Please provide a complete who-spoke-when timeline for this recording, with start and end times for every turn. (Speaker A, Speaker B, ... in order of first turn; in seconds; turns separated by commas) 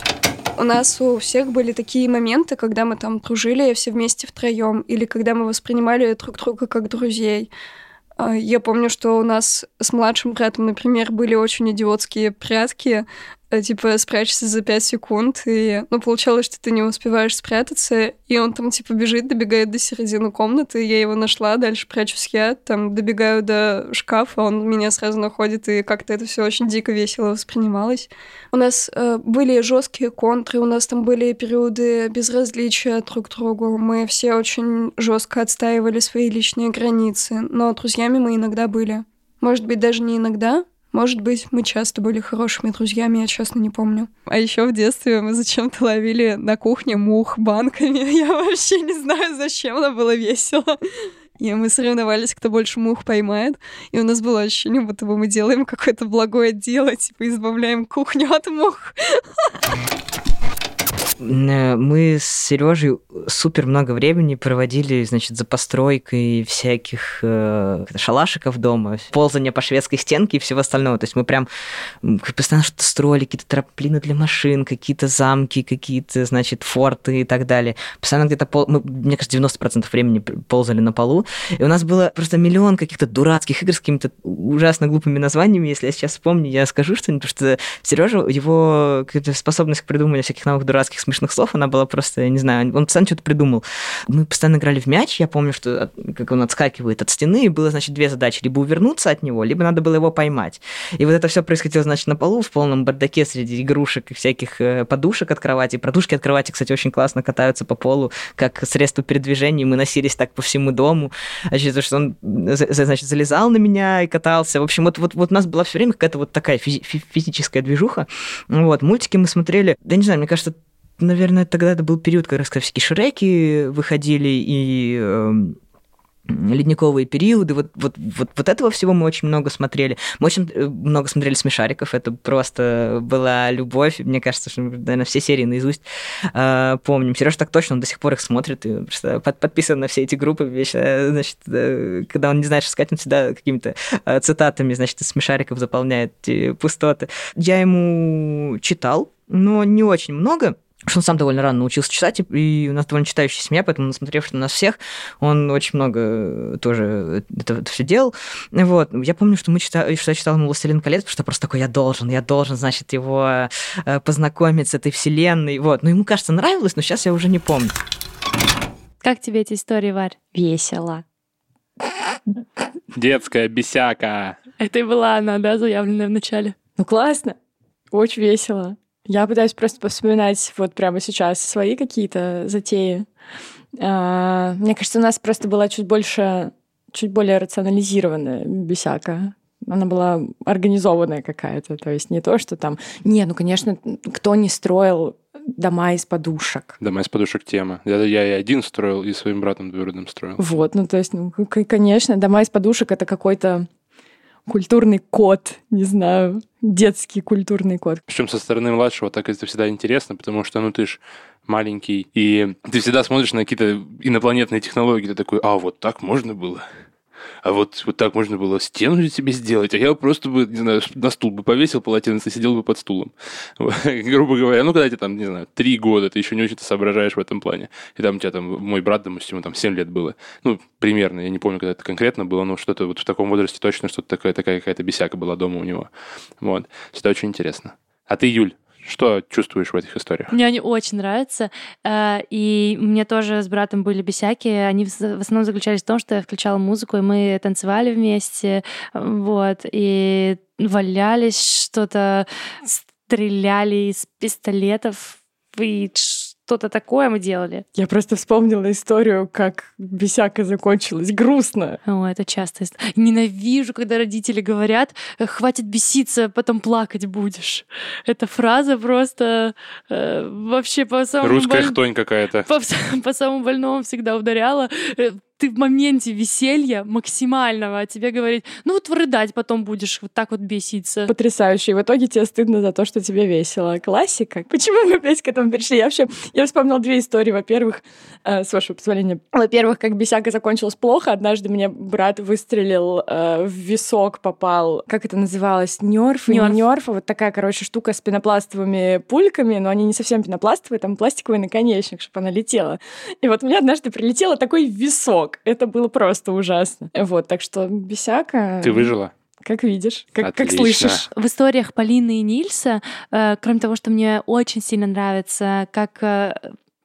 Speaker A: 0.6-7.5, Speaker A: 8.2-50.8, Speaker A: 51.4-58.9, Speaker B: 61.2-71.5, Speaker B: 72.0-125.6, Speaker B: 126.3-135.8, Speaker B: 136.3-167.7, Speaker C: 169.0-170.1, Speaker D: 170.3-171.0, Speaker E: 172.9-174.4, Speaker C: 174.6-176.5, Speaker D: 176.8-177.3, Speaker D: 177.9-183.1, Speaker D: 183.8-196.8, Speaker E: 196.8-200.4, Speaker D: 200.4-203.7, Speaker D: 204.5-208.0, Speaker E: 208.1-216.7, Speaker E: 217.4-240.3, Speaker C: 240.3-257.6, Speaker D: 257.7-261.8, Speaker C: 261.8-271.8, Speaker E: 271.2-272.5, Speaker C: 272.5-281.1, Speaker D: 281.1-311.0, Speaker C: 296.3-296.6, Speaker E: 308.6-309.1, Speaker E: 310.2-311.0, Speaker C: 311.1-316.5